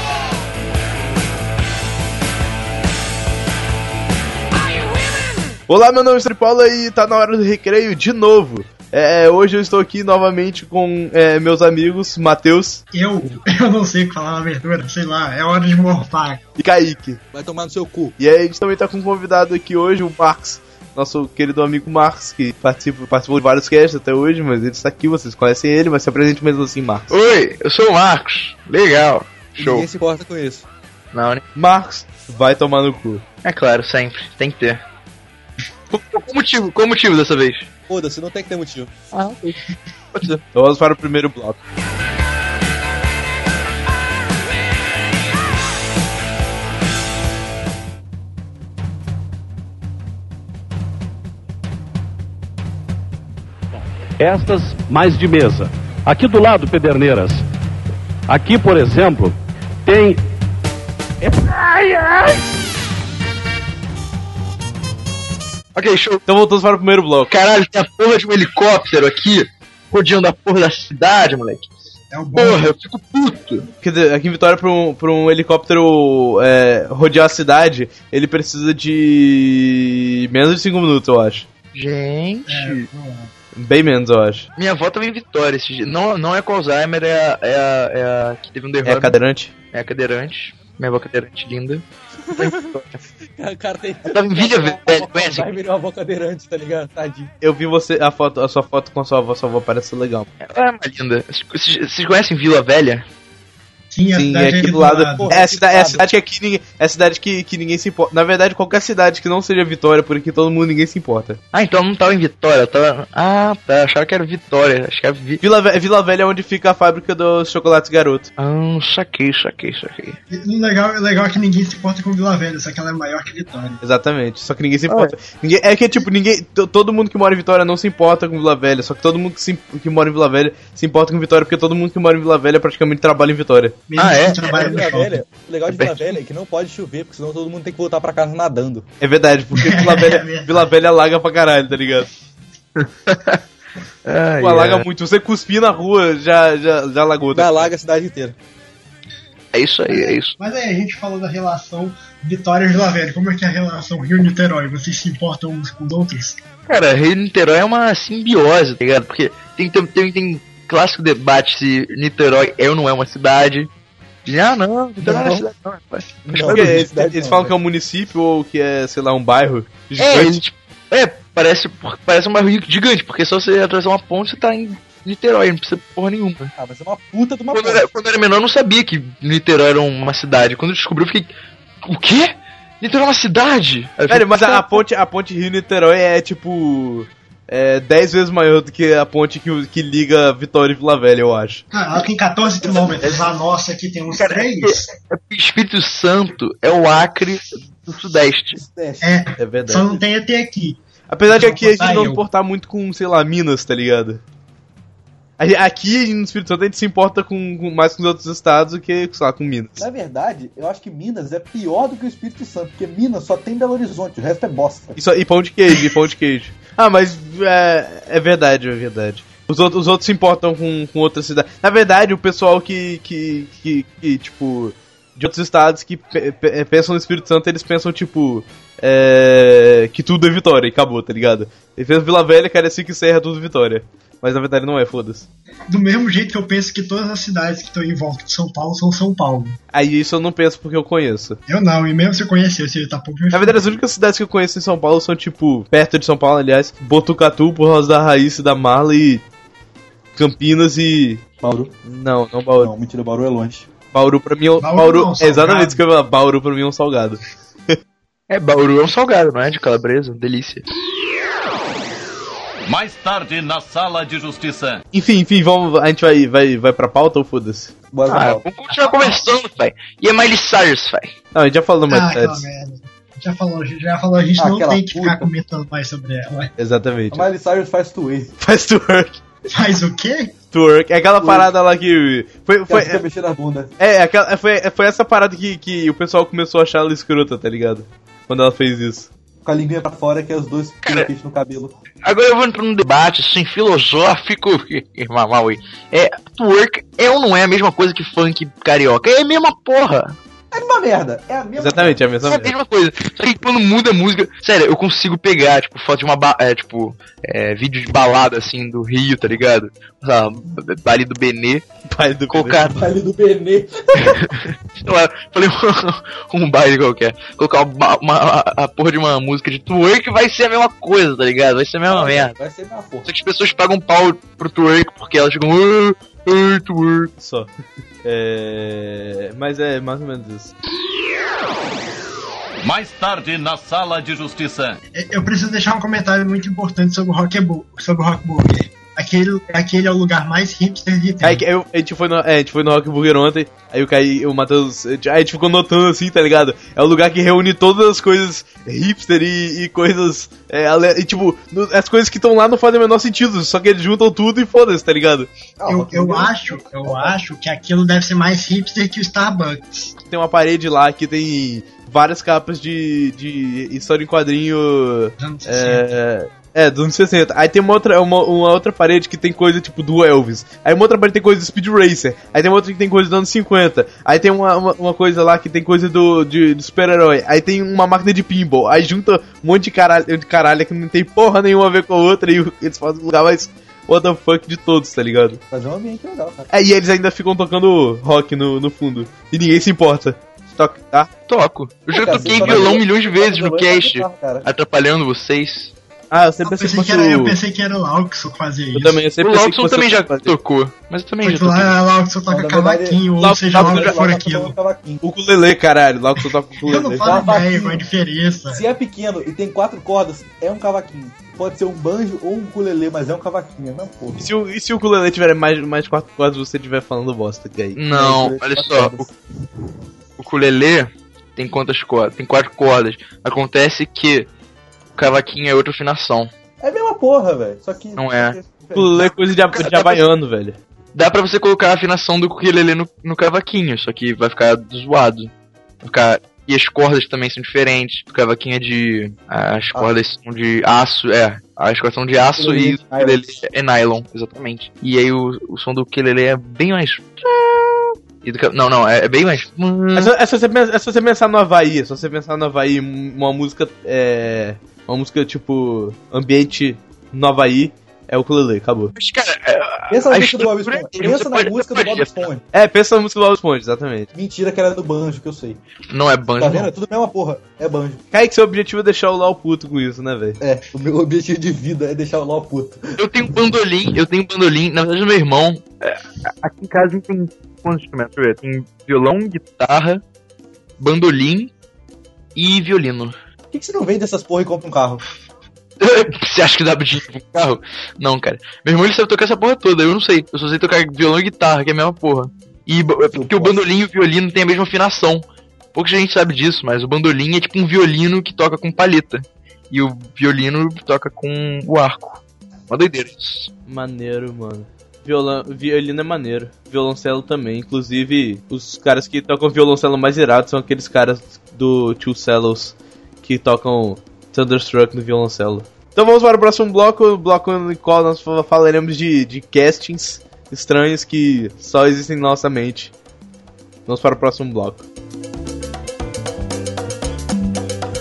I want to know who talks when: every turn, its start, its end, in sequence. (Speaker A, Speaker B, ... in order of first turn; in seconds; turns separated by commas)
Speaker A: 5.7-12.8, Speaker B: 12.9-16.4, Speaker A: 16.6-17.2, Speaker C: 17.3-18.2, Speaker A: 18.2-27.1, Speaker D: 27.1-29.9, Speaker C: 29.6-30.7, Speaker D: 31.1-31.4, Speaker A: 31.6-33.2, Speaker D: 33.4-34.8, Speaker D: 35.9-37.7, Speaker C: 37.9-39.0, Speaker D: 39.1-39.6, Speaker D: 40.1-40.4, Speaker A: 40.5-41.6, Speaker E: 54.2-57.4, Speaker E: 58.3-60.2, Speaker E: 61.2-62.2, Speaker D: 65.8-66.2, Speaker A: 66.3-67.3, Speaker D: 67.3-71.7, Speaker B: 72.1-72.8, Speaker D: 72.3-73.7, Speaker A: 73.8-81.5, Speaker D: 81.7-82.9, Speaker B: 82.5-83.3, Speaker A: 83.5-84.5, Speaker D: 84.6-89.2, Speaker A: 88.8-89.5, Speaker D: 89.7-91.8, Speaker D: 92.3-93.0, Speaker C: 93.4-97.3, Speaker D: 94.1-95.5, Speaker A: 97.4-100.3, Speaker D: 100.4-103.1, Speaker B: 103.9-105.3, Speaker A: 104.1-111.4, Speaker C: 105.1-106.1, Speaker D: 111.5-115.4, Speaker A: 115.4-118.3, Speaker D: 118.4-120.2, Speaker B: 120.3-123.8, Speaker A: 123.8-133.8, Speaker D: 124.9-125.1, Speaker B: 133.9-135.2, Speaker D: 134.0-134.5, Speaker C: 134.4-138.9, Speaker A: 135.7-136.1, Speaker A: 139.0-142.1, Speaker B: 139.6-140.7, Speaker D: 144.1-144.8, Speaker A: 144.4-147.7, Speaker C: 147.3-148.4, Speaker D: 149.5-150.4, Speaker B: 149.9-156.4, Speaker D: 156.7-163.7, Speaker D: 164.3-166.8, Speaker C: 165.0-165.4, Speaker C: 166.2-167.5, Speaker A: 166.5-170.4, Speaker D: 170.0-176.5, Speaker C: 176.6-177.9, Speaker D: 177.5-181.3, Speaker D: 181.8-184.8, Speaker A: 184.1-191.6, Speaker B: 191.7-194.9, Speaker D: 192.7-193.3, Speaker D: 194.1-198.6, Speaker C: 198.5-199.3, Speaker B: 199.0-202.2, Speaker A: 199.4-199.9, Speaker A: 201.1-204.2, Speaker A: 205.4-209.9, Speaker C: 209.8-215.0, Speaker A: 215.0-235.3, Speaker B: 235.7-239.6, Speaker A: 239.7-241.4, Speaker B: 241.5-243.8, Speaker A: 243.3-249.2, Speaker A: 250.2-251.2, Speaker C: 251.4-251.7, Speaker A: 251.9-252.7, Speaker C: 252.6-253.7, Speaker A: 253.9-257.2, Speaker B: 254.6-255.8, Speaker D: 258.3-260.6, Speaker F: 262.7-264.8, Speaker A: 264.9-267.7, Speaker C: 267.9-268.5, Speaker D: 268.1-271.1, Speaker B: 268.8-269.2, Speaker A: 271.3-272.5, Speaker B: 271.9-276.5, Speaker C: 274.4-275.3, Speaker A: 276.6-277.3, Speaker C: 277.1-278.4, Speaker A: 278.4-279.2, Speaker B: 279.5-280.3, Speaker A: 280.5-283.0, Speaker C: 281.2-281.5, Speaker C: 282.7-283.7, Speaker A: 283.8-289.1, Speaker C: 289.4-291.7, Speaker D: 290.8-291.1, Speaker D: 292.0-300.2, Speaker C: 300.5-302.0, Speaker A: 301.6-302.5, Speaker D: 302.3-311.6, Speaker A: 311.9-312.6, Speaker D: 312.3-312.9, Speaker C: 312.8-314.2, Speaker D: 314.0-322.3, Speaker C: 321.9-323.1, Speaker D: 323.1-327.1, Speaker A: 327.2-327.5, Speaker A: 328.0-330.5, Speaker F: 332.6-334.8, Speaker B: 335.0-341.4, Speaker A: 341.2-355.3, Speaker C: 355.6-357.2, Speaker B: 355.7-359.9, Speaker A: 360.1-385.4, Speaker B: 365.2-365.9, Speaker C: 385.5-386.5, Speaker A: 386.5-391.1, Speaker D: 391.3-395.7, Speaker C: 391.9-394.5, Speaker A: 392.3-392.8, Speaker A: 396.1-397.4, Speaker B: 396.4-399.0, Speaker A: 398.7-400.4, Speaker D: 399.2-401.8, Speaker B: 401.2-404.6, Speaker C: 402.3-405.0, Speaker A: 403.2-404.0, Speaker A: 405.0-407.1, Speaker B: 406.6-408.6, Speaker C: 407.0-407.9, Speaker C: 408.5-414.3, Speaker A: 414.2-417.8, Speaker D: 417.8-419.1, Speaker C: 417.9-419.1, Speaker D: 420.2-424.3, Speaker D: 425.0-426.3, Speaker C: 426.6-429.1, Speaker D: 428.0-428.4, Speaker A: 428.8-430.6, Speaker D: 429.5-430.0, Speaker D: 430.9-435.3, Speaker D: 435.8-450.1, Speaker C: 442.3-443.4, Speaker A: 449.9-458.9, Speaker D: 459.0-462.3, Speaker C: 459.9-462.4, Speaker A: 462.5-464.1, Speaker C: 464.1-465.6, Speaker D: 465.9-466.7, Speaker C: 466.4-468.0, Speaker A: 468.1-470.4, Speaker C: 470.4-473.3, Speaker D: 473.0-480.0, Speaker D: 480.8-481.5, Speaker D: 482.4-483.1, Speaker C: 483.5-485.0, Speaker D: 485.8-503.5, Speaker C: 493.1-493.6, Speaker A: 503.7-522.9, Speaker A: 523.9-524.9